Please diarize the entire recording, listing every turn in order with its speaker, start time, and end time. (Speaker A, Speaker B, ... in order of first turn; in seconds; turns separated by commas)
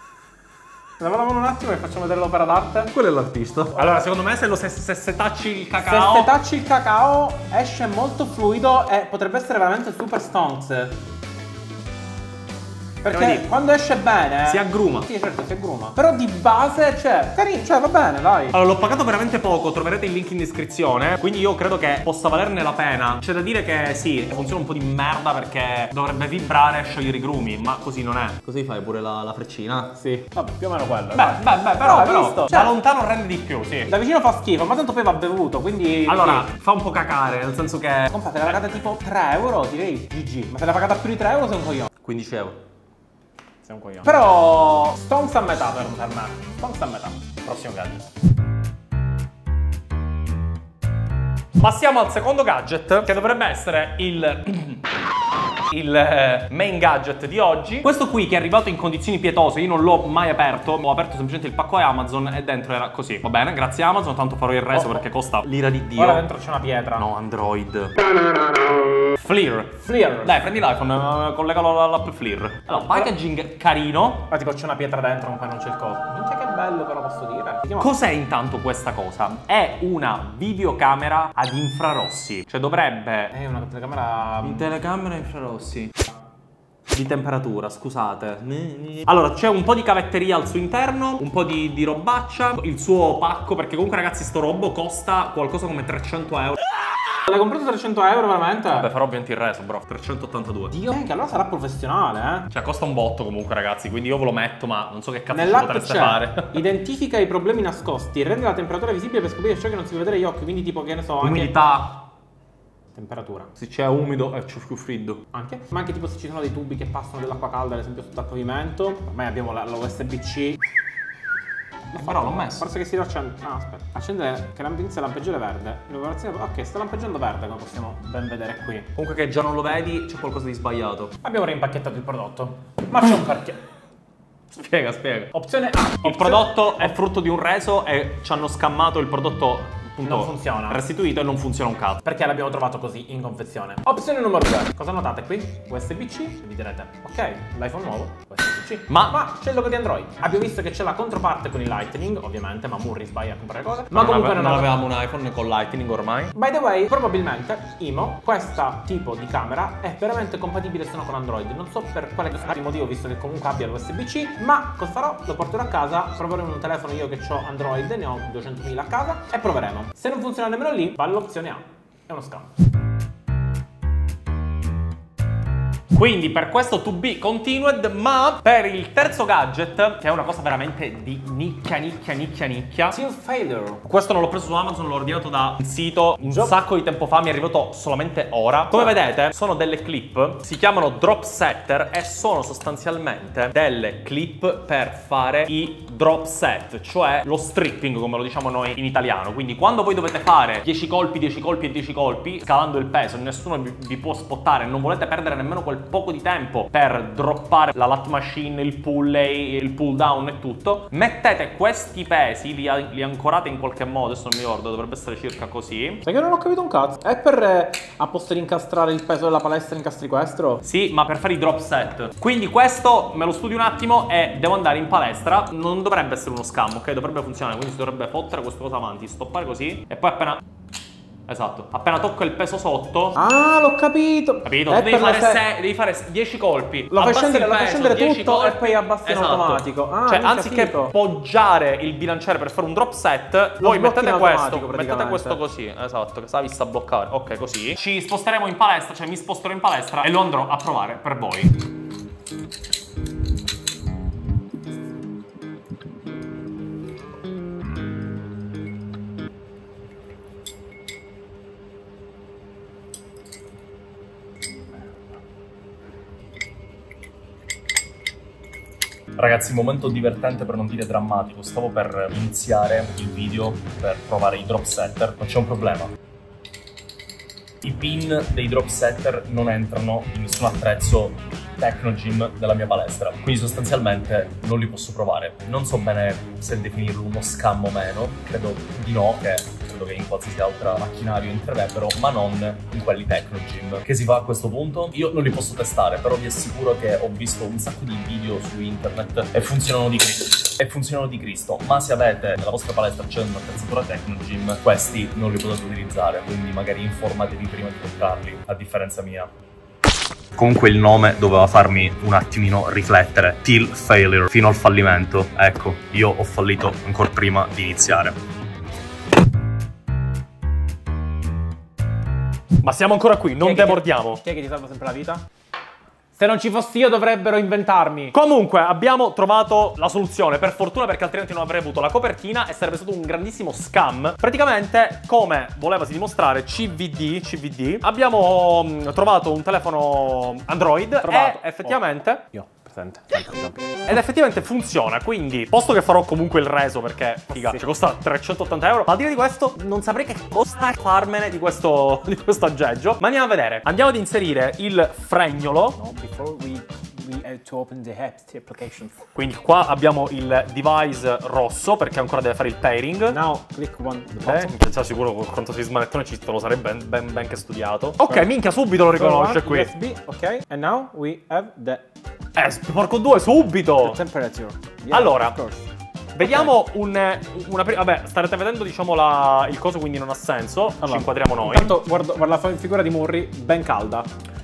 Speaker A: 1.0-2.9, Speaker B: 2.9-6.3, Speaker A: 5.8-10.9, Speaker A: 13.0-18.5, Speaker B: 13.1-13.5, Speaker B: 14.4-15.1, Speaker B: 18.5-29.9, Speaker A: 29.9-32.7, Speaker B: 31.1-33.9, Speaker A: 33.9-36.5, Speaker B: 36.0-38.5, Speaker A: 38.1-41.9, Speaker B: 42.0-42.6, Speaker A: 43.6-47.2, Speaker B: 47.4-48.0, Speaker B: 51.6-54.8, Speaker B: 55.7-66.2, Speaker A: 64.7-65.0, Speaker A: 66.0-67.1, Speaker B: 66.9-68.0, Speaker B: 69.2-74.3, Speaker A: 69.8-70.5, Speaker A: 72.7-73.1, Speaker A: 74.3-77.9, Speaker B: 77.8-83.3, Speaker A: 83.3-84.7, Speaker B: 84.4-85.9, Speaker B: 86.9-96.6, Speaker A: 97.2-98.9, Speaker B: 98.7-100.8, Speaker A: 100.7-102.5, Speaker B: 102.5-106.6, Speaker A: 105.3-111.5, Speaker B: 111.2-112.1, Speaker A: 112.9-113.5, Speaker B: 113.6-115.2, Speaker A: 115.3-120.6, Speaker A: 121.9-128.9, Speaker B: 122.0-122.7, Speaker B: 128.9-131.2, Speaker A: 131.2-133.6, Speaker B: 134.5-135.3, Speaker A: 135.3-136.9, Speaker B: 136.0-142.0, Speaker A: 140.0-140.8, Speaker A: 142.0-154.7, Speaker B: 148.9-149.2, Speaker B: 153.9-156.3, Speaker A: 156.3-172.5, Speaker B: 175.9-183.0, Speaker A: 182.9-183.8, Speaker B: 183.8-216.0, Speaker A: 186.2-186.5, Speaker A: 216.0-220.6, Speaker B: 220.6-230.4, Speaker B: 231.3-233.2, Speaker A: 233.2-235.4, Speaker B: 234.4-251.6, Speaker A: 236.9-240.9, Speaker A: 243.6-245.4, Speaker B: 269.2-275.9, Speaker B: 277.6-309.3, Speaker B: 310.4-318.1, Speaker B: 322.6-324.2, Speaker A: 323.4-325.2, Speaker A: 326.1-328.1, Speaker B: 328.1-342.2, Speaker A: 341.0-341.8, Speaker A: 342.3-344.0, Speaker B: 343.9-355.8, Speaker A: 347.3-347.6, Speaker A: 355.8-359.0, Speaker B: 359.1-363.2, Speaker A: 363.1-364.5, Speaker B: 364.2-369.7, Speaker A: 368.0-368.3, Speaker A: 368.9-371.9, Speaker B: 372.4-374.0, Speaker A: 373.8-375.7, Speaker B: 374.9-375.4, Speaker B: 376.1-381.8, Speaker A: 376.2-376.5, Speaker A: 380.8-384.1